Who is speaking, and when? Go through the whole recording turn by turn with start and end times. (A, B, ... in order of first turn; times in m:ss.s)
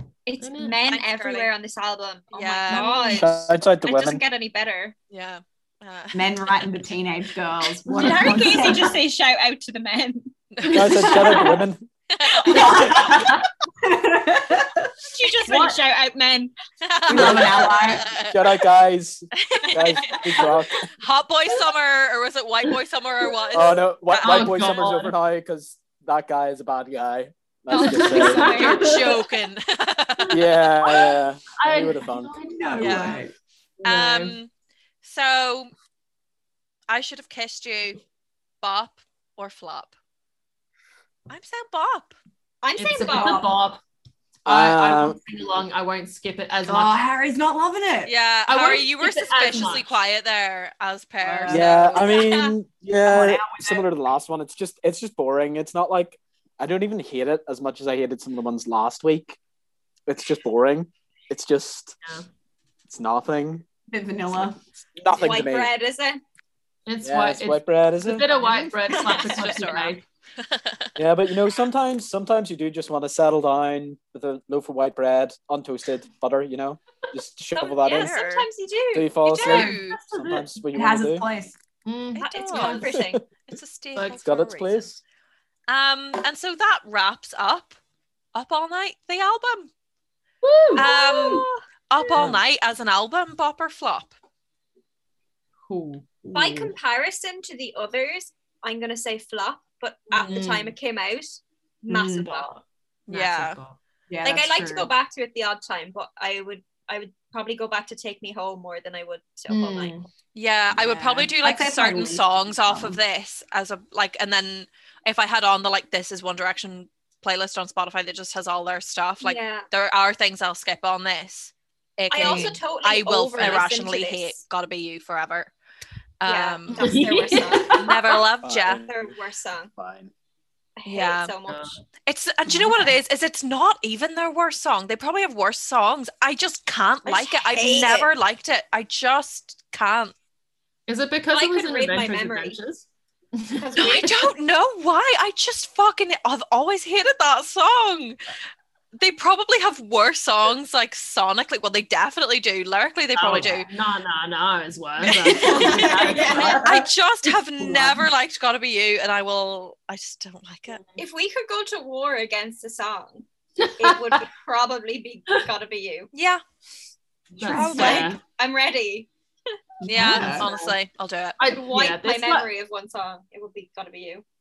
0:00.3-0:04.9 A
0:00.4-0:00.8 B
0:00.9-0:01.5 C
0:02.3-0:03.2 C
0:03.1-0:04.2 D
0:05.1-0:06.7 C
0:06.1-0:09.0 E
0:07.9-0:10.3 A
0:10.5-0:11.4 C
0:10.7-0:11.9 D
0:12.1-0:13.1 C
0:12.4-0:14.9 E
0:13.1-0:13.3 B
0:15.0-0:16.5 A
0:15.4-0:15.8 B
0:16.8-0:18.6 C
0:17.1-0:18.1 E
0:17.1-0:17.7 B
0:18.3-0:20.9 D
0:19.4-0:25.0 C
0:19.8-0:20.3 A
0:23.5-0:28.6 D
0:24.2-0:25.1 B
0:27.7-0:29.0 A
0:27.7-0:29.2 B
0:28.4-0:30.5 C
0:30.3-0:32.4 D
0:30.9-0:33.2 B
0:32.5-0:33.3 E
0:32.8-0:33.2 C
0:33.8-0:34.4 B
0:33.8-0:34.5 C
0:35.0-0:35.7 C
0:36.9-0:38.0 C
0:38.6-0:39.9 C
0:41.3-0:42.2 C
0:42.6-0:43.5 A
0:42.8-0:43.8 B
0:43.0-0:43.5 E
0:44.4-0:45.2 D
0:44.4-0:47.0 B
0:46.6-0:48.1 E
0:48.0-0:52.4 C
0:48.5-0:49.9 B
0:51.2-0:51.9 E
0:51.5-0:59.4 D
0:52.0-0:52.5 A
0:53.0-0:53.9 E
1:00.0-1:02.0 D
1:02.9-1:03.6 D
1:03.9-1:04.6 E
1:04.3-1:05.7 D
1:05.1-1:06.2 A
1:06.8-1:10.0 B
1:07.0-1:08.3 D
1:08.4-1:10.9 C
1:09.0-1:09.2 A
1:11.0-1:18.1 D
1:17.6-1:19.4 A
1:17.8-1:18.5 C
1:18.9-1:21.2 D
1:19.2-1:20.0 C
1:19.6-1:20.5 B
1:20.7-1:21.6 E
1:21.8-1:22.9 B
1:22.2-1:22.8 C
1:22.2-1:23.2 A
1:22.9-1:23.3 D
1:23.4-1:24.9 C
1:24.2-1:25.0 D
1:25.7-1:27.8 C
1:28.3-1:29.7 C
1:30.4-1:30.9 B
1:30.8-1:31.6 A
1:30.8-1:34.1 C
1:35.7-1:36.3 B
1:36.2-1:36.7 E
1:36.3-1:42.6 A
1:40.2-1:40.7 B
1:41.9-1:42.4 E
1:43.1-1:43.6 C
1:43.1-1:43.8 B
1:44.1-1:44.9 E
1:44.2-1:50.0 A
1:49.5-1:50.0 B
1:50.3-2:05.5 C
1:50.7-1:53.0 E
1:59.2-1:59.6 A
2:02.1-2:04.4 A
2:02.2-2:02.5 E
2:06.2-2:07.0 C
2:06.2-2:07.9 A
2:06.8-2:08.2 B
2:07.7-2:08.8 C
2:08.4-2:09.1 D
2:08.7-2:09.7 A
2:09.8-2:10.1 D
2:10.8-2:11.8 A
2:10.8-2:11.3 C
2:11.5-2:11.7 B
2:12.0-2:20.1 C
2:17.0-2:18.1 A
2:17.5-2:18.0 E
2:20.9-2:24.1 B
2:21.3-2:22.6 A
2:23.6-2:24.1 A
2:23.8-2:28.2 C
2:29.0-2:33.7 C
2:33.2-2:36.6 B
2:35.2-2:40.8 C
2:35.2-2:36.9 E
2:35.4-2:36.6 A
2:37.6-2:38.0 E
2:41.0-2:43.2 A
2:43.6-2:44.2 B
2:43.8-2:46.1 A
2:46.1-2:46.4 C
2:47.3-2:48.1 E
2:47.4-2:48.2 B
2:47.6-2:48.1 C
2:47.6-2:49.1 A
2:49.8-2:50.5 E
2:49.8-2:51.4 C
2:50.0-2:50.6 B
2:51.4-2:52.5 B
2:51.4-2:54.2 A